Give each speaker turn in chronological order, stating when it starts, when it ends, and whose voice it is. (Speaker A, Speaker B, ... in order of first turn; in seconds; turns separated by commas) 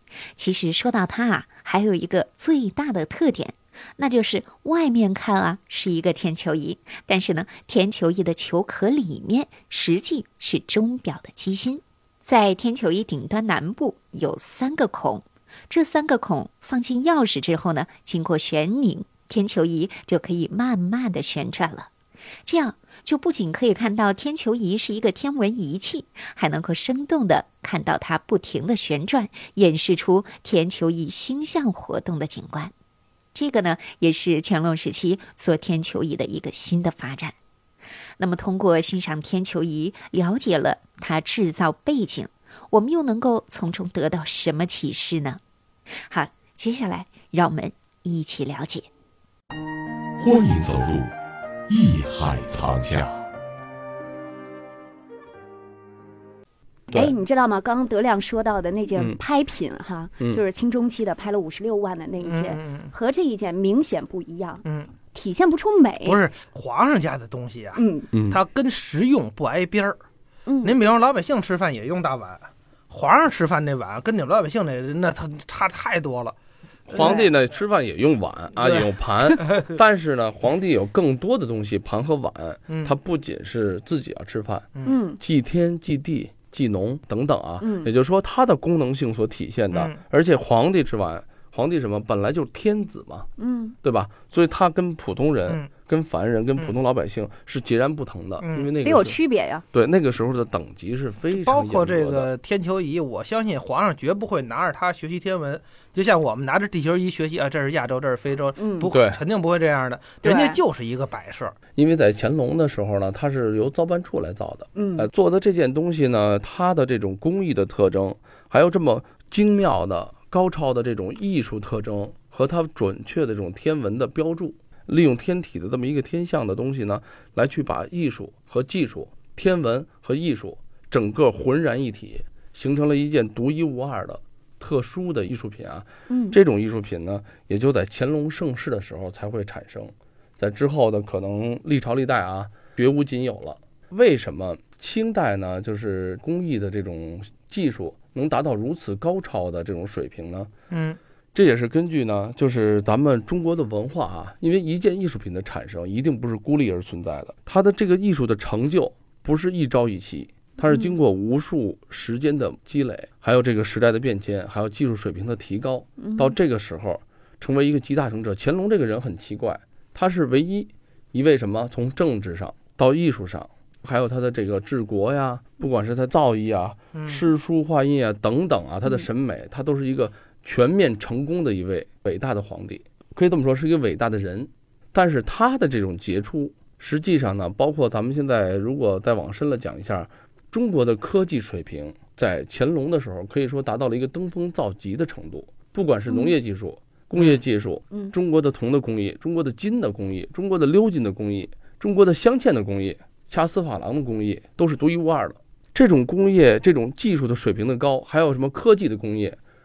Speaker A: 0.3-21.9, Speaker A: 22.4-32.7, Speaker A: 33.3-37.3, Speaker A: 38.2-45.4, Speaker A: 46.1-48.9, Speaker B: 50.2-51.1, Speaker B: 51.7-53.2, Speaker C: 56.9-66.2, Speaker D: 62.2-62.9, Speaker D: 64.6-64.9, Speaker D: 66.0-70.0, Speaker C: 67.8-68.1, Speaker E: 68.1-68.4, Speaker C: 70.5-70.8, Speaker D: 70.6-76.3, Speaker D: 76.9-77.3, Speaker E: 76.9-93.3, Speaker C: 77.0-77.3, Speaker D: 78.6-79.7, Speaker D: 82.7-82.9, Speaker C: 84.8-85.2, Speaker C: 87.6-87.9, Speaker D: 89.7-90.0, Speaker C: 93.4-93.8, Speaker E: 93.8-99.2, Speaker D: 98.4-98.7, Speaker C: 98.8-99.6, Speaker E: 99.7-102.3, Speaker D: 101.3-111.5, Speaker C: 108.6-108.9, Speaker E: 108.9-109.2, Speaker C: 110.2-110.6, Speaker E: 111.8-150.5, Speaker C: 114.8-115.1, Speaker C: 136.1-136.4, Speaker D: 150.7-151.0, Speaker E: 151.3-209.4, Speaker C: 160.6-160.9, Speaker C: 166.0-166.3, Speaker D: 176.9-177.2, Speaker C: 196.1-196.3